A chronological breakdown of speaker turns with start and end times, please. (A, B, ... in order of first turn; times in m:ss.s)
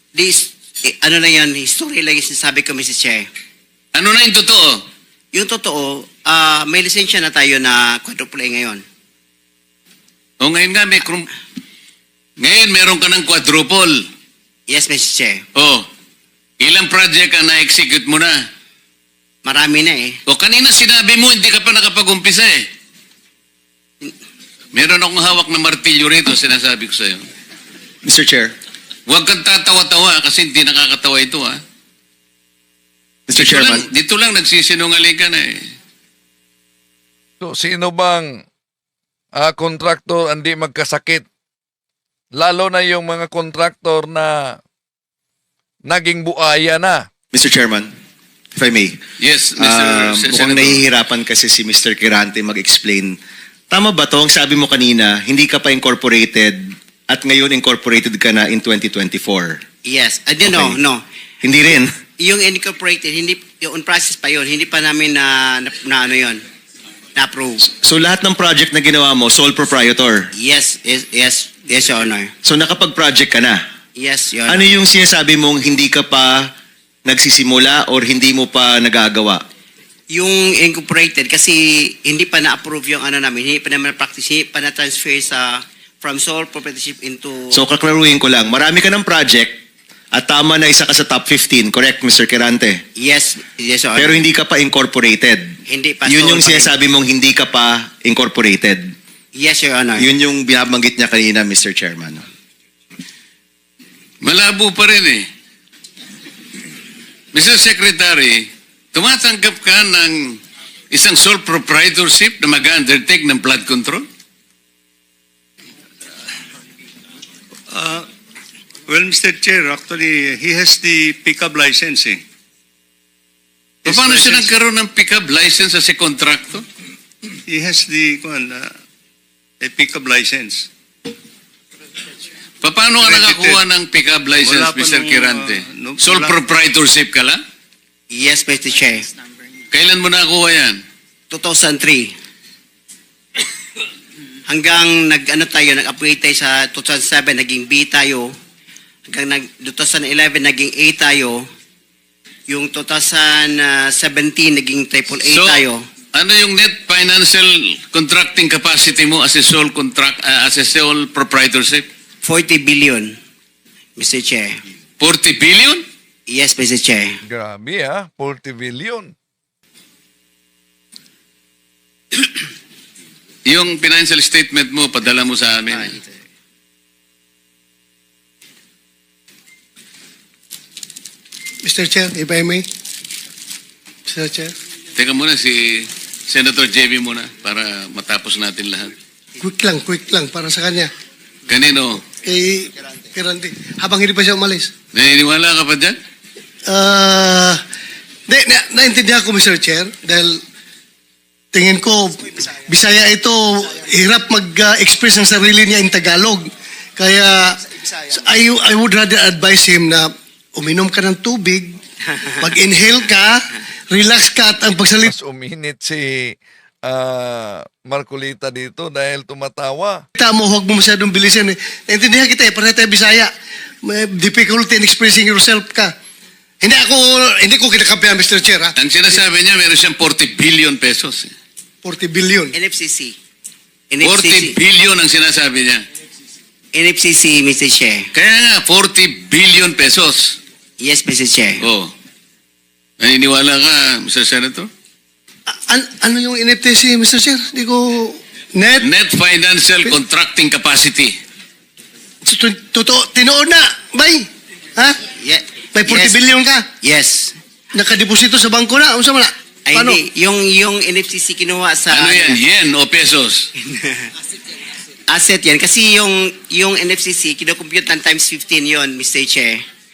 0:00.1-0:03.2 A
0:03.9-0:04.8 B
0:05.3-0:08.8 A
0:10.4-0:11.3 B
0:12.4-0:14.0 B
0:14.7-0:15.4 A
0:15.5-0:15.9 B
0:16.6-0:18.4 B
0:19.4-0:20.2 A
0:20.3-0:22.6 B
0:24.7-0:27.2 B
0:28.0-0:28.5 C
0:29.1-0:31.6 B
0:33.3-0:33.8 C
0:33.3-0:35.6 B
0:37.4-0:38.4 D
0:39.4-0:41.2 D
0:42.4-0:44.6 D
0:45.9-0:47.1 D
0:47.3-0:47.9 C
0:48.5-0:49.0 C
0:49.2-0:50.8 B
0:49.6-0:53.2 C
0:53.7-0:59.6 C
0:59.8-1:01.0 A
1:00.4-1:00.8 C
1:01.4-1:01.9 C
1:02.2-1:06.4 A
1:07.2-1:07.6 A
1:07.7-1:10.3 C
1:10.4-1:12.3 A
1:12.4-1:13.6 C
1:14.0-1:14.7 A
1:14.4-1:16.5 C
1:17.0-1:19.4 C
1:20.1-1:27.6 A
1:27.5-1:29.6 C
1:30.1-1:32.8 C
1:33.0-1:34.2 A
1:34.0-1:38.9 C
1:35.7-1:36.7 A
1:39.3-1:40.1 A
1:40.0-1:42.2 C
1:44.2-1:45.2 B
1:47.3-1:50.4 B
1:50.9-1:54.0 B
1:57.7-1:58.0 E
1:58.9-2:02.2 E
2:03.8-2:04.5 E
2:03.8-2:06.6 B
2:07.5-2:08.7 E
2:09.6-2:10.7 E
2:12.6-2:17.4 B
2:13.0-2:13.6 E
2:14.4-2:16.4 E
2:18.1-2:19.0 A
2:19.7-2:20.8 B
2:21.3-2:22.1 A
2:24.5-2:28.3 A
2:29.1-2:31.4 A
2:32.5-2:35.8 A
2:35.2-2:35.6 B
2:36.1-2:41.8 B
2:42.2-2:43.2 A
2:44.0-2:44.6 A
2:45.0-2:45.8 B
2:46.3-2:47.2 A
2:47.2-2:49.1 D
2:53.4-2:56.0 B
3:01.6-3:02.7 F
3:04.1-3:04.5 F
3:05.0-3:08.9 B
3:09.4-3:10.9 F
3:11.5-3:12.0 B
3:12.1-3:14.7 F
3:14.9-3:16.0 B
3:16.7-3:17.6 F
3:18.3-3:20.4 F
3:21.5-3:31.8 F
3:32.4-3:35.1 F
3:35.0-3:40.0 D
3:40.2-3:43.3 F
3:43.8-3:45.9 F
3:46.6-3:48.7 F
3:48.8-3:51.3 B
3:51.8-3:52.5 F
3:52.5-3:53.1 A
3:53.9-3:54.6 A
3:54.0-3:55.8 B
3:56.7-3:58.1 A
3:58.1-4:00.4 B
4:00.8-4:01.6 A
4:01.6-4:01.9 B
4:03.0-4:04.7 B
4:05.5-4:08.9 F
4:08.8-4:11.2 B
4:12.2-4:15.0 F
4:15.2-4:16.2 A
4:15.7-4:16.7 F
4:16.8-4:17.3 A
4:17.7-4:20.0 F
4:19.6-4:22.4 A
4:21.9-4:23.5 B
4:23.6-4:24.1 A
4:25.1-4:29.6 A